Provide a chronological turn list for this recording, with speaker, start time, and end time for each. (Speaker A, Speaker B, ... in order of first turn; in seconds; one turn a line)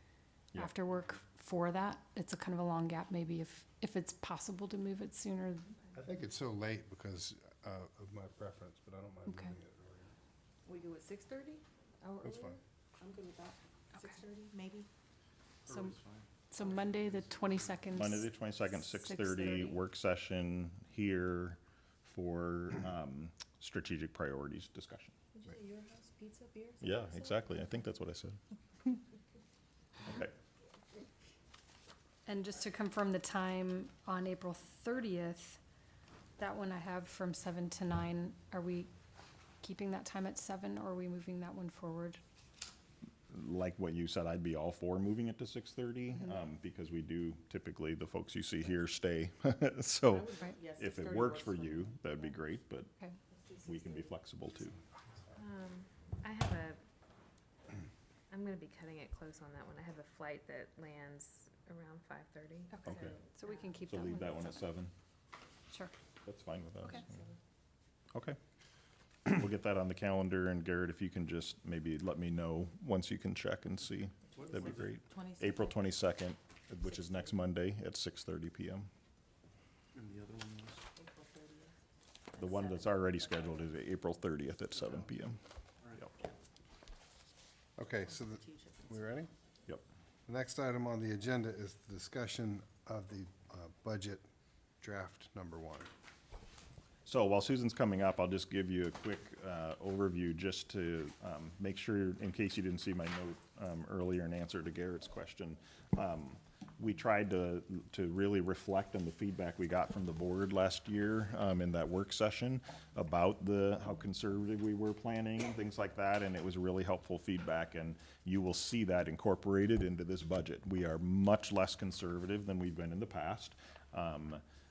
Speaker A: 0.6-5.7
Speaker B: 5.9-10.2
Speaker A: 9.3-9.5
Speaker C: 10.6-14.9
Speaker B: 12.2-12.6
Speaker D: 15.7-17.9
Speaker A: 16.5-19.8
Speaker E: 17.9-25.1
Speaker C: 25.3-27.5
Speaker E: 26.8-28.9
Speaker E: 30.0-30.3
Speaker A: 32.2-35.6
Speaker A: 36.4-38.9
Speaker A: 39.6-42.2
Speaker E: 43.3-52.9
Speaker C: 50.0-52.0
Speaker C: 53.3-54.1
Speaker E: 53.6-54.8
Speaker F: 55.4-56.8
Speaker F: 58.3-63.3
Speaker A: 62.7-64.7
Speaker E: 62.8-63.1
Speaker E: 63.9-64.9
Speaker E: 66.2-67.2
Speaker C: 66.9-67.3
Speaker E: 69.3-78.9
Speaker D: 74.3-74.9
Speaker C: 74.4-75.8
Speaker D: 79.9-80.8
Speaker C: 81.0-81.7
Speaker C: 82.3-83.5
Speaker E: 82.3-85.4
Speaker D: 85.8-86.1
Speaker B: 87.8-89.3
Speaker C: 88.0-89.0
Speaker B: 90.2-94.2
Speaker B: 94.8-95.9
Speaker E: 97.0-124.4